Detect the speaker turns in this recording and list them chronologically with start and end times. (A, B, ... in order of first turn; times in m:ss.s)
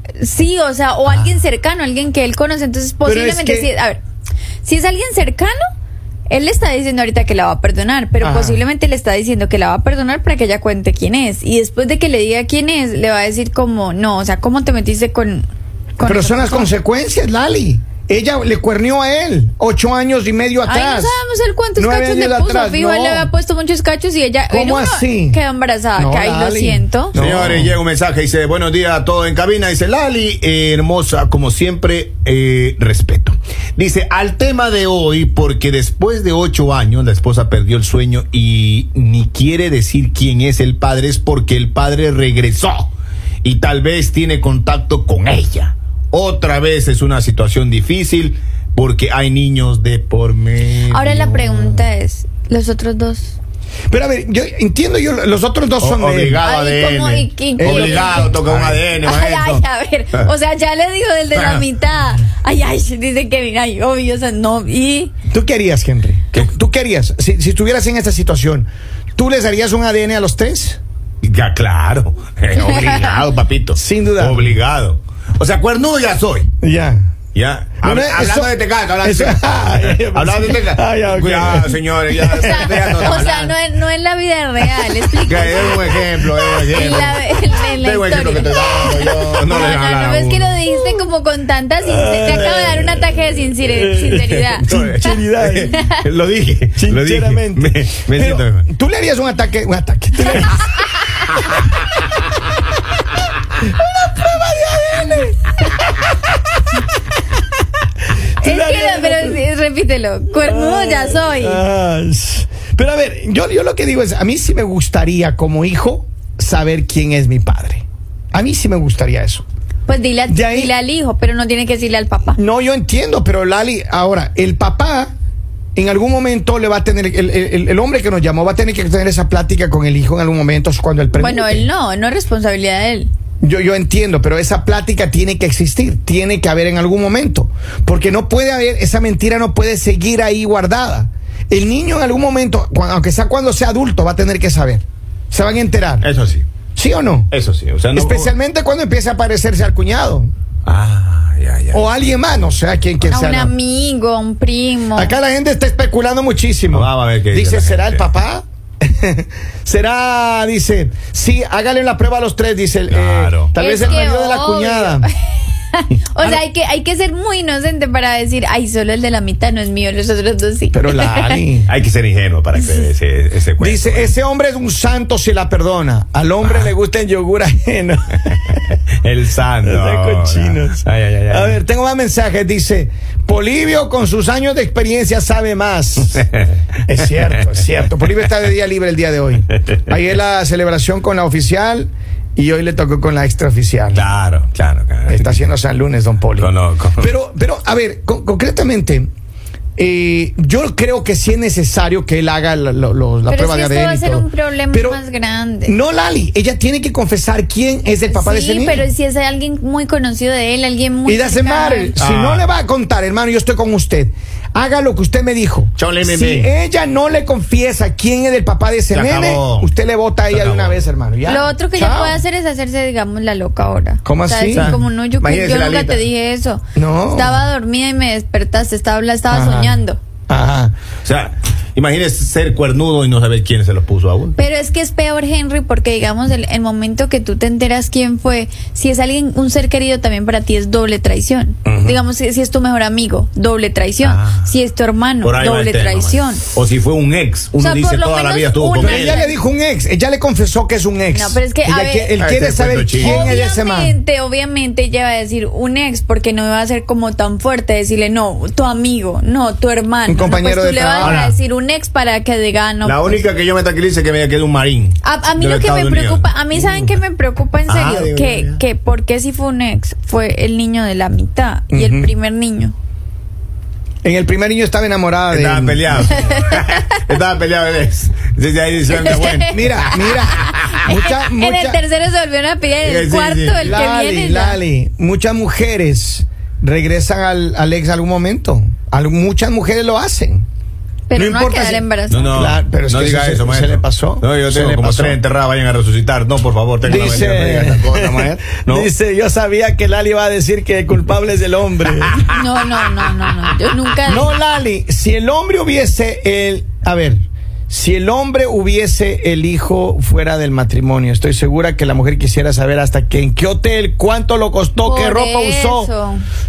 0:00.2-0:04.0 A
0:03.0-0:03.7 B
0:04.6-0:05.6 A
0:06.3-0:15.5 A
0:08.2-0:08.6 B
0:16.0-0:16.7 A
0:16.0-0:21.2 B
0:20.6-0:27.1 A
0:21.8-0:23.3 B
0:24.5-0:25.4 B
0:25.9-0:27.8 B
0:27.1-0:42.9 C
0:43.4-0:51.8 C
0:50.9-0:53.4 A
0:53.9-0:56.4 B
0:55.8-0:59.6 C
0:56.4-0:58.4 A
0:57.6-0:58.8 B
0:59.0-1:05.1 A
1:01.3-1:01.6 C
1:05.3-1:10.8 B
1:11.2-1:16.5 C
1:12.5-1:13.2 A
1:13.7-1:14.5 B
1:16.6-1:17.1 B
1:17.3-1:23.5 C
1:17.8-1:23.0 B
1:22.2-1:34.7 A
1:25.2-1:30.6 C
1:31.8-1:33.0 B
1:32.2-1:33.2 C
1:33.6-1:35.8 B
1:34.6-1:38.7 C
1:35.6-1:36.0 A
1:36.8-1:40.7 B
1:43.6-1:45.5 B
1:48.4-1:49.4 B
1:48.4-1:51.6 A
1:50.4-1:59.4 B
1:59.9-2:02.4 A
2:00.3-2:00.7 B
2:02.3-2:05.1 B
2:05.7-2:11.7 B
2:11.1-2:13.1 A
2:13.4-2:26.1 B
2:26.0-2:26.4 C
2:26.8-2:27.3 B
2:27.3-2:28.3 C
2:27.9-2:30.3 B
2:30.6-2:31.9 C
2:31.7-2:33.5 B
2:33.1-2:35.2 A
2:34.9-2:45.1 B
2:36.7-2:38.1 C
2:42.9-2:43.9 C
2:43.5-2:51.4 A
2:50.7-2:51.7 B
2:51.6-2:54.1 C
2:53.6-2:58.7 B
2:59.0-3:01.6 C
2:59.6-3:06.2 B
3:06.8-3:14.0 B
3:13.9-3:15.5 C
3:15.1-3:19.1 B
3:16.4-3:17.1 C
3:19.8-3:25.0 B
3:23.3-3:25.7 A
3:25.6-3:28.8 B
3:28.0-3:31.9 A
3:31.0-3:42.2 B
3:32.0-3:32.4 C
3:35.8-3:36.5 C
3:38.9-3:39.7 C
3:40.3-3:40.8 C
3:41.2-3:50.0 A
3:44.0-3:44.8 B
3:44.5-3:46.0 C
3:46.8-3:47.4 B
3:49.3-3:50.7 B
3:51.0-3:54.4 C
3:54.4-4:06.4 A
4:01.6-4:02.0 B
4:04.0-4:04.5 C
4:05.2-4:09.2 C
4:07.6-4:09.4 A
4:08.8-4:14.0 B
4:11.1-4:12.2 A
4:12.2-4:13.4 C
4:12.9-4:23.2 A
4:20.1-4:21.3 B
4:21.0-4:21.3 C
4:22.8-4:26.9 C
4:25.0-4:32.7 A
4:27.7-4:28.6 C
4:31.7-4:32.1 B
4:34.0-4:36.1 B
4:35.3-4:40.0 C
4:36.2-4:37.0 A
4:38.9-4:44.6 A
4:39.5-4:41.8 B
4:42.8-4:43.8 C
4:43.6-4:50.4 B
4:51.1-4:52.3 A
4:51.1-4:55.2 B
4:52.1-4:58.9 C
4:56.8-5:02.2 B
5:02.0-5:02.4 C
5:02.3-5:04.3 A
5:04.0-5:15.9 B
5:14.8-5:16.2 A